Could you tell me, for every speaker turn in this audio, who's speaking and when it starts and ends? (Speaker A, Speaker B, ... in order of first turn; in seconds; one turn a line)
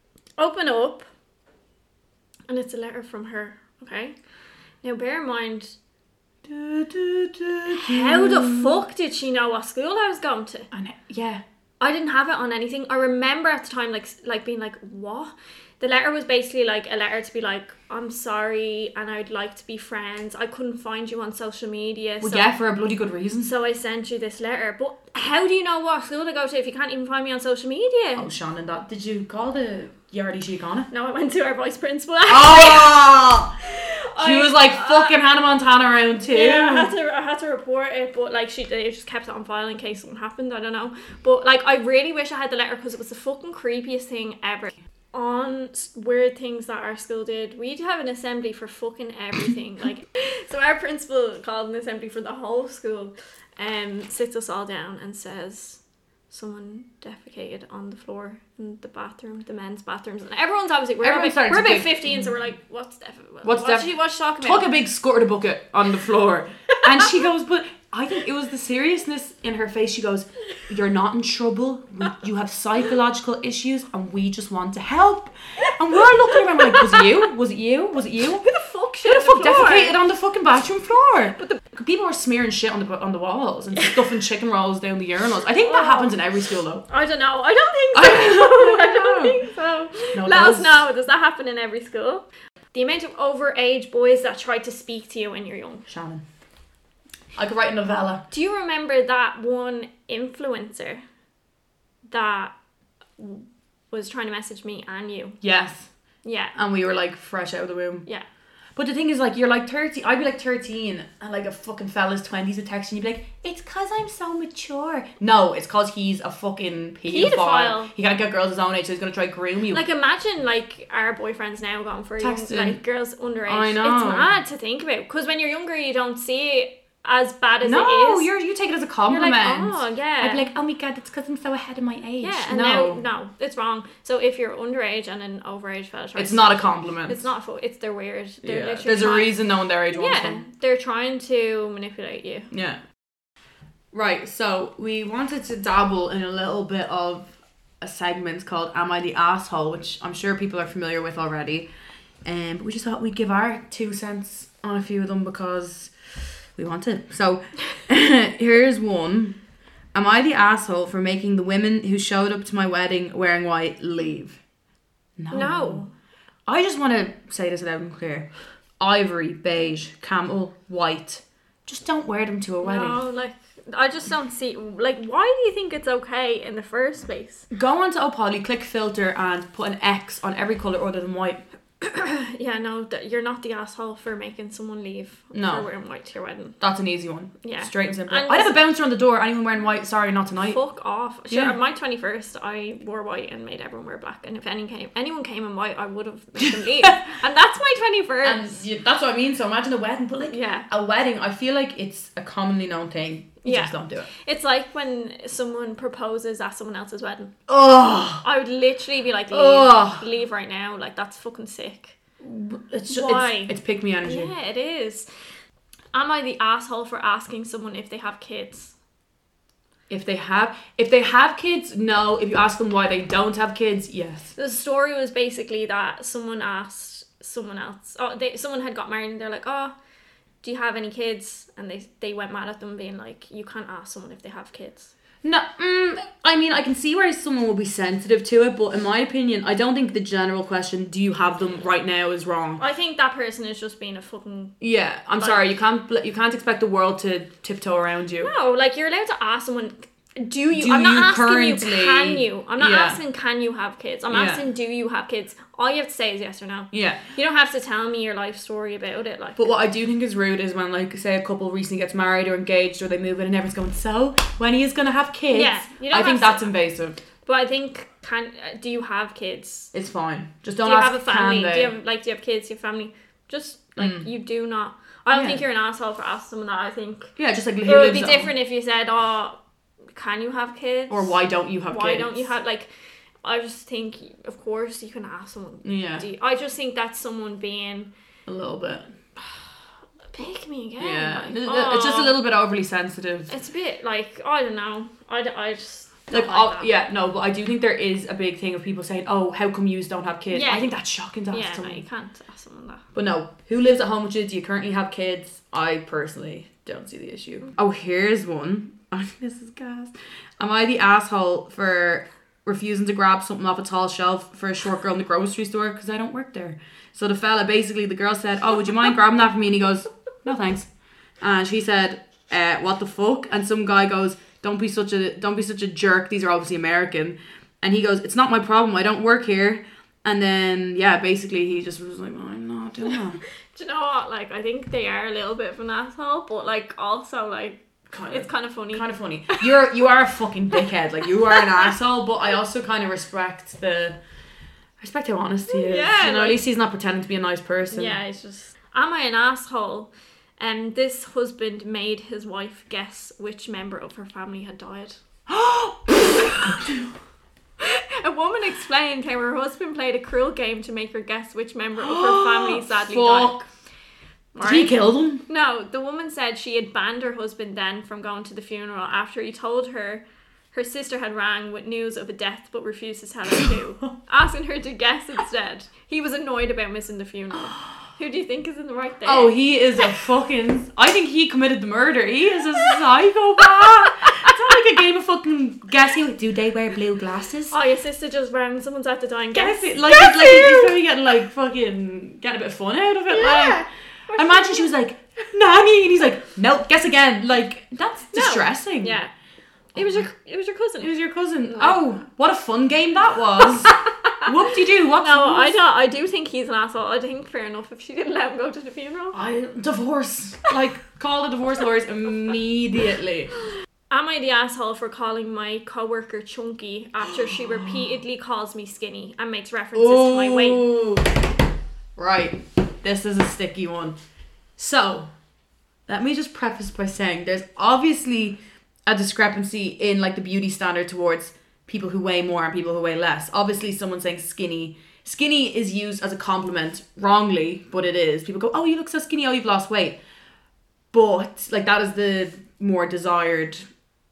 Speaker A: 0.4-1.1
Speaker A: 2.5-4.1
Speaker A: 4.8-5.8
Speaker B: 6.4-8.8
Speaker A: 7.7-10.7
Speaker B: 10.7-11.4
Speaker A: 11.8-22.5
Speaker B: 22.2-23.5
Speaker A: 23.4-28.3
Speaker B: 28.2-30.9
Speaker A: 30.9-33.0
Speaker B: 32.3-33.5
Speaker A: 33.6-35.2
Speaker B: 34.2-36.9
Speaker A: 36.2-64.7
Speaker B: 61.0-62.3
Speaker B: 63.4-78.4
Speaker A: 76.3-77.0
Speaker A: 78.4-80.0
Speaker B: 79.0-86.8
Speaker A: 85.6-86.2
Speaker A: 86.9-95.9
Speaker B: 87.9-89.4
Speaker B: 90.1-90.8
Speaker B: 95.9-96.2
Speaker B: 97.3-98.2
Speaker A: 98.3-101.0
Speaker A: 102.1-102.5
Speaker A: 103.2-105.4
Speaker B: 105.4-105.9
Speaker A: 106.2-106.5
Speaker B: 106.5-108.0
Speaker B: 108.8-119.8
Speaker A: 117.1-117.9
Speaker A: 119.7-128.3
Speaker B: 122.2-122.8
Speaker B: 123.5-124.3
Speaker B: 127.6-133.0
Speaker A: 129.1-130.4
Speaker A: 132.2-139.3
Speaker B: 136.2-137.2
Speaker B: 138.4-140.4
Speaker A: 139.9-142.5
Speaker B: 142.5-142.8
Speaker B: 143.9-151.7
Speaker B: 152.2-155.9
Speaker B: 156.6-159.4
Speaker B: 159.9-164.4
Speaker B: 165.2-165.8
Speaker A: 165.3-165.9
Speaker B: 166.5-168.3
Speaker B: 168.8-173.0
Speaker A: 172.6-177.5
Speaker B: 177.5-181.4
Speaker A: 181.8-186.6
Speaker B: 185.3-185.7
Speaker B: 186.6-190.6
Speaker A: 187.4-188.5
Speaker A: 190.5-198.6
Speaker B: 191.3-191.5
Speaker B: 196.4-196.9
Speaker B: 198.2-204.1
Speaker A: 200.3-200.7
Speaker A: 203.4-207.3
Speaker B: 207.5-208.2
Speaker A: 208.2-211.9
Speaker B: 209.3-210.0
Speaker B: 212.2-214.3
Speaker A: 212.9-215.1
Speaker A: 215.9-218.7
Speaker B: 219.9-224.3
Speaker A: 224.3-229.7
Speaker A: 230.4-234.9
Speaker B: 235.2-242.6
Speaker A: 242.6-244.6
Speaker B: 244.6-248.3
Speaker A: 245.2-245.4
Speaker A: 248.2-259.5
Speaker B: 250.5-253.0
Speaker B: 254.1-254.4
Speaker B: 256.7-257.1
Speaker B: 259.4-267.0
Speaker A: 265.3-266.5
Speaker A: 267.2-269.7
Speaker B: 269.7-271.7
Speaker A: 270.6-277.1
Speaker B: 273.8-274.1
Speaker B: 275.1-275.4
Speaker B: 277.2-278.3
Speaker A: 277.6-279.4
Speaker A: 279.9-282.7
Speaker B: 280.9-282.3
Speaker A: 283.2-287.9
Speaker B: 285.6-286.0
Speaker B: 288.3-288.9
Speaker A: 290.1-292.1
Speaker B: 290.8-293.3
Speaker A: 293.3-296.7
Speaker B: 296.1-301.8
Speaker A: 300.3-300.7
Speaker A: 301.3-302.8
Speaker B: 302.9-320.7
Speaker B: 321.2-333.2
Speaker A: 333.5-339.5
Speaker B: 337.9-344.0
Speaker A: 341.3-341.6
Speaker B: 344.8-347.9
Speaker A: 345.5-346.4
Speaker A: 347.7-355.0
Speaker B: 355.3-356.9
Speaker A: 357.6-363.4
Speaker B: 361.8-363.4
Speaker A: 364.3-379.3
Speaker B: 364.4-365.2
Speaker B: 379.0-387.5
Speaker A: 387.5-390.7
Speaker B: 389.3-399.0
Speaker A: 393.1-394.7
Speaker A: 398.1-399.1
Speaker A: 399.7-400.9
Speaker B: 399.8-400.0
Speaker B: 400.8-405.6
Speaker A: 401.5-401.8
Speaker A: 403.7-404.3
Speaker A: 405.0-409.2
Speaker B: 409.1-413.3
Speaker A: 413.9-420.6
Speaker B: 417.3-417.8
Speaker B: 419.7-421.2
Speaker B: 421.9-423.9
Speaker B: 424.6-425.1
Speaker B: 425.9-440.0
Speaker B: 440.9-443.6